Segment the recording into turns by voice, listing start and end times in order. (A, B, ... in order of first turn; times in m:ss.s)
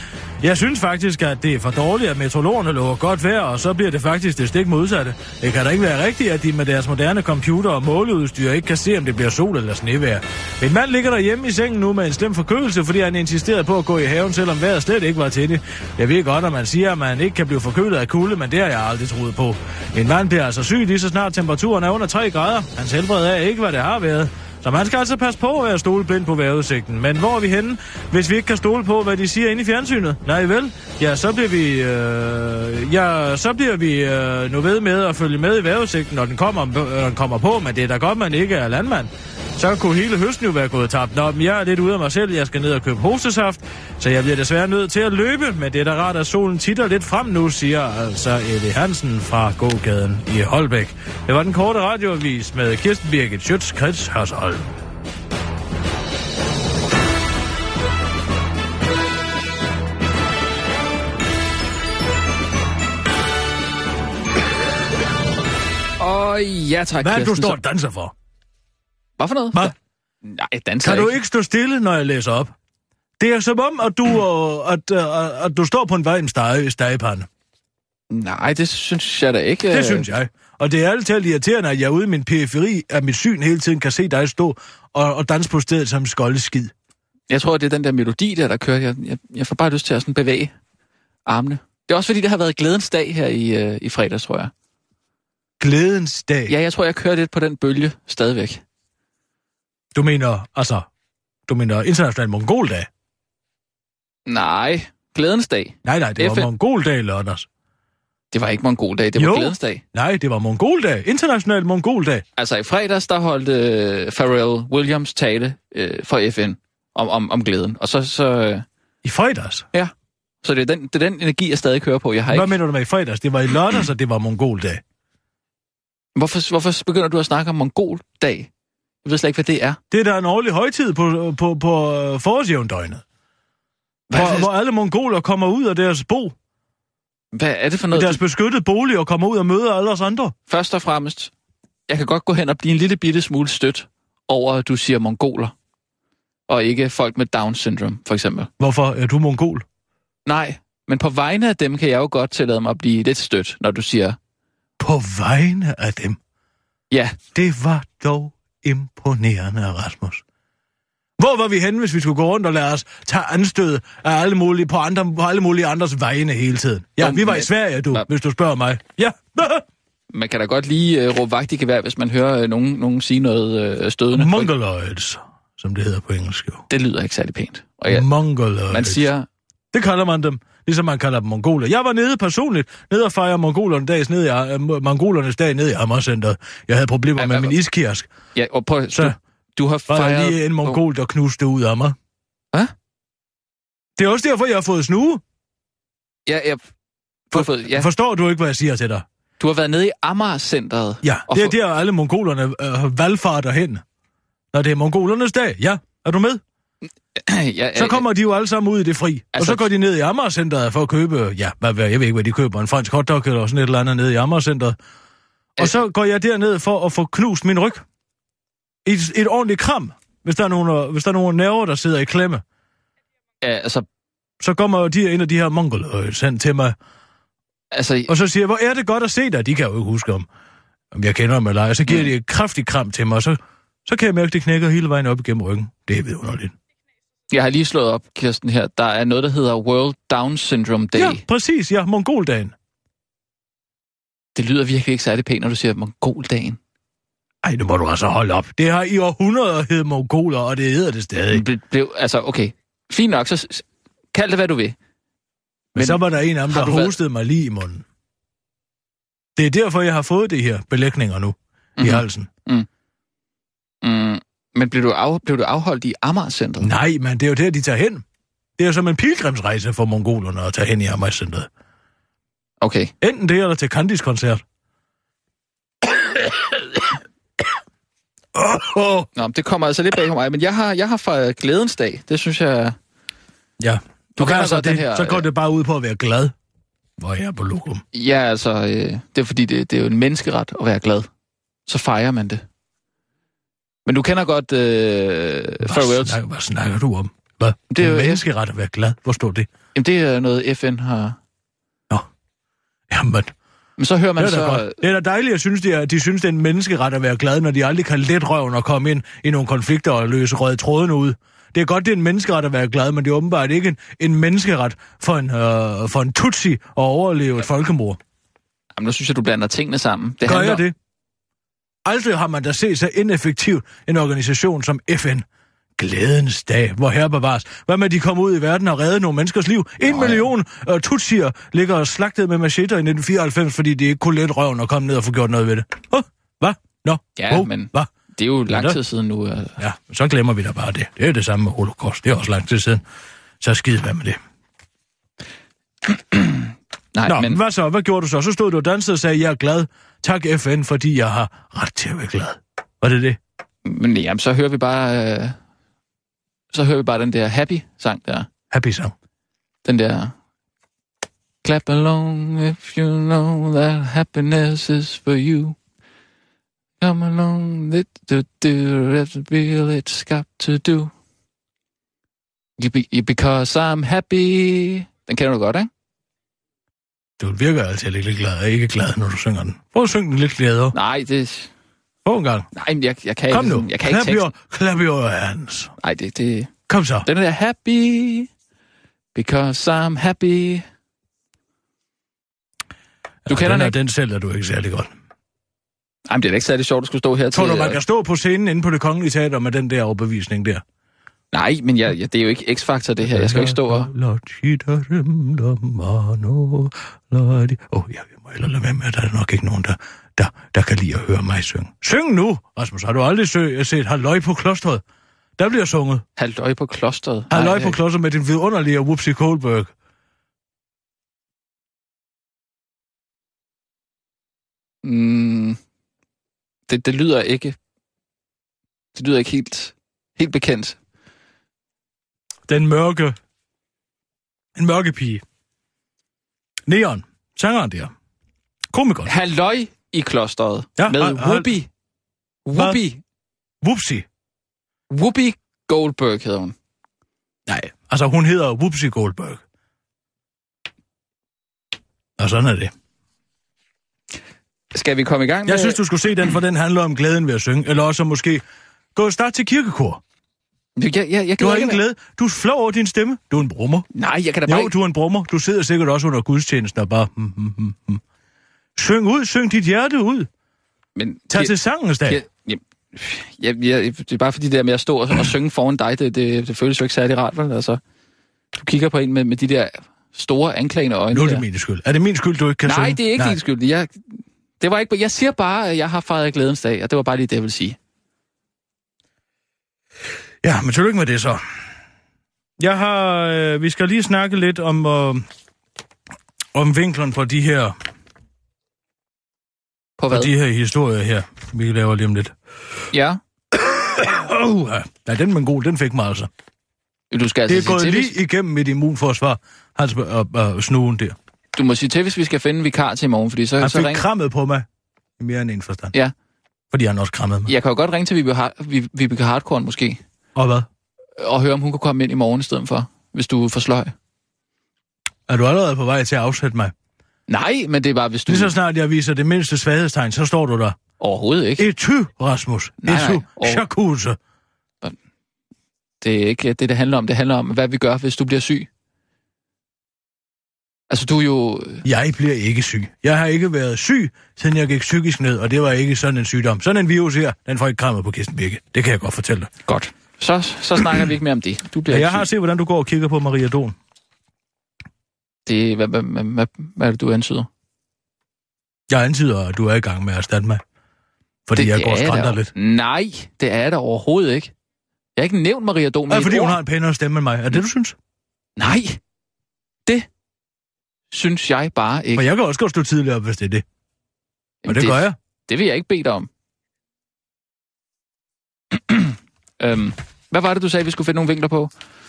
0:00.4-0:54.8 A
1:06.0-1:07.6 B
1:07.0-1:08.1 A
1:09.2-1:11.2 B
1:10.8-1:12.5 A
1:13.2-1:17.3 A
1:18.1-1:20.0 B
1:19.7-1:26.7 A
1:27.3-1:30.5 B
1:31.2-1:34.5 B
1:35.6-1:36.5 A
1:36.5-1:38.6 B
1:39.9-1:40.9 A
1:41.5-1:42.9 A
1:44.2-1:46.5 B
1:45.8-1:47.5 A
1:48.3-1:49.8 B
1:49.2-1:52.2 A
1:52.4-1:58.6 B
1:59.0-1:59.6 A
1:59.7-2:02.6 B
2:02.3-2:04.8 A
2:06.2-2:08.5 B
2:09.0-2:09.8 B
2:09.9-2:13.0 A
2:14.1-2:14.5 B
2:14.1-2:16.3 A
2:17.3-2:18.2 B
2:17.9-2:20.3 A
2:20.5-2:21.3 B
2:21.9-2:25.5 B
2:26.5-2:28.5 B
2:28.6-2:29.6 A
2:30.2-2:34.2 B
2:34.8-2:36.2 A
2:36.9-2:37.2 B
2:37.3-2:40.2 A
2:41.2-2:49.6 A
2:47.0-2:48.0 B
2:50.1-2:54.5 B
2:54.1-2:56.6 A
2:56.7-2:58.1 B
2:57.9-2:59.1 A
2:58.7-2:59.3 B
2:59.7-3:08.1 A
3:07.2-3:07.5 B
3:08.3-3:10.8 B
3:09.9-3:12.0 A
3:14.0-3:15.2 A
3:16.2-3:16.6 B
3:17.3-3:17.9 B
3:17.3-3:19.0 A
3:19.4-3:21.6 B
3:21.0-3:23.8 A
3:24.5-3:26.4 A
3:27.2-3:28.0 B
3:27.8-3:34.8 A
3:29.3-3:29.7 B
3:35.6-3:37.8 A
3:38.8-3:42.4 A
3:43.4-3:43.8 B
3:44.4-3:46.8 A
3:47.7-3:48.1 B
3:48.1-3:50.3 A
3:50.9-3:56.5 A
3:57.3-4:01.2 B
4:00.9-4:02.5 A
4:04.3-4:06.6 B
4:07.4-4:11.4 A
4:11.3-4:14.8 B
4:15.7-4:17.0 B
4:15.7-4:17.8 A
4:19.4-4:22.3 A
4:21.8-4:22.7 B
4:23.8-4:26.7 B
4:26.6-4:28.0 A
4:28.6-4:31.5 A
4:32.6-4:32.9 B
4:33.0-4:34.4 A
4:36.1-4:36.8 A
4:38.3-4:39.1 A
4:39.1-4:42.8 B
4:43.6-4:46.3 A
4:44.2-4:45.2 B
4:47.0-4:47.8 A
4:47.9-4:51.1 B
4:51.7-4:52.4 B
4:53.8-4:56.2 B
4:55.6-4:59.5 A
4:57.7-4:58.2 B
4:59.7-5:01.2 B
5:02.9-5:03.3 A
5:03.8-5:04.8 B
5:04.2-5:18.0 A
5:18.8-5:20.6 B
5:20.2-5:20.7 A
5:21.8-5:25.2 A
5:25.8-5:37.9 A
5:29.8-5:30.2 B
5:37.2-5:39.6 B
5:38.5-5:38.8 A
5:39.6-5:42.8 A
5:43.4-5:44.2 A
5:45.8-5:47.4 B
5:47.0-5:53.2 A
5:53.6-5:55.4 B
5:56.5-5:58.3 B
5:58.5-5:58.9 A
5:59.6-6:00.1 B
6:01.4-6:05.6 B
6:06.8-6:10.9 B
6:12.6-6:15.7 B
6:17.2-6:20.7 A
6:20.7-6:21.5 B
6:22.0-6:22.5 A
6:22.5-6:24.3 B
6:23.3-6:25.7 A
6:25.8-6:26.5 B
6:26.7-6:27.1 A
6:27.0-6:28.3 B
6:29.1-6:30.6 B
6:33.2-6:34.9 A
6:33.3-6:33.7 B
6:36.1-6:37.8 B
6:37.3-6:40.6 A
6:41.3-6:43.9 B
6:43.0-6:54.8 A
6:55.4-6:56.0 A
6:56.2-6:57.8 B
6:57.3-6:59.7 A
7:04.8-7:05.6 B
7:06.7-7:07.6 B
7:08.9-7:10.8 B
7:12.5-7:13.2 A
7:14.5-7:15.2 A
7:16.6-7:17.9 A
7:18.7-7:19.1 A
7:19.0-7:21.7 B
7:20.8-7:21.5 A
7:22.4-7:23.0 B
7:22.5-7:22.8 A
7:23.6-7:24.0 A
7:24.9-7:26.5 B
7:27.5-7:29.4 A
7:32.2-7:32.7 A
7:34.7-7:35.8 B
7:35.4-7:38.4 A
7:38.9-7:40.0 A
7:40.8-7:41.8 B
7:41.4-7:43.9 A
7:43.9-7:44.7 B
7:44.4-7:48.0 A
7:48.8-7:50.3 A
7:51.0-7:57.8 B
7:51.3-7:52.2 A
7:58.5-8:01.4 B
8:01.1-8:03.4 A
8:02.6-8:07.8 B
8:10.4-8:11.4 A
8:12.6-8:15.3 A
8:16.5-8:17.7 A
8:20.0-8:20.3 B
8:20.1-8:22.3 A
8:22.9-8:23.2 B
8:23.5-8:26.3 A
8:27.1-8:28.1 B
8:27.5-8:31.2 A
8:31.5-8:34.0 B
8:33.6-8:34.6 A
8:35.2-8:35.9 A
8:36.7-8:37.5 A
8:37.5-8:40.0 B
8:40.3-8:40.7 A
8:41.2-8:43.9 B
8:45.3-8:46.7 A
8:47.3-8:48.5 B
8:48.3-8:50.8 A
8:51.0-8:51.6 B
8:51.6-8:54.2 A
8:52.8-8:53.6 B
8:56.0-8:58.7 B
9:00.9-9:01.8 B
9:01.8-9:09.5 A
9:09.7-9:12.3 B
9:11.9-9:13.8 A
9:15.4-9:17.5 B
9:18.9-9:20.6 A
9:21.5-9:22.5 A
9:21.5-9:24.5 B
9:25.2-9:26.6 B
9:26.1-9:28.0 A
9:28.6-9:29.0 B
9:31.1-9:32.3 B
9:32.1-9:33.6 A
9:34.6-9:36.3 B
9:34.7-9:35.2 A
9:38.7-9:41.7 B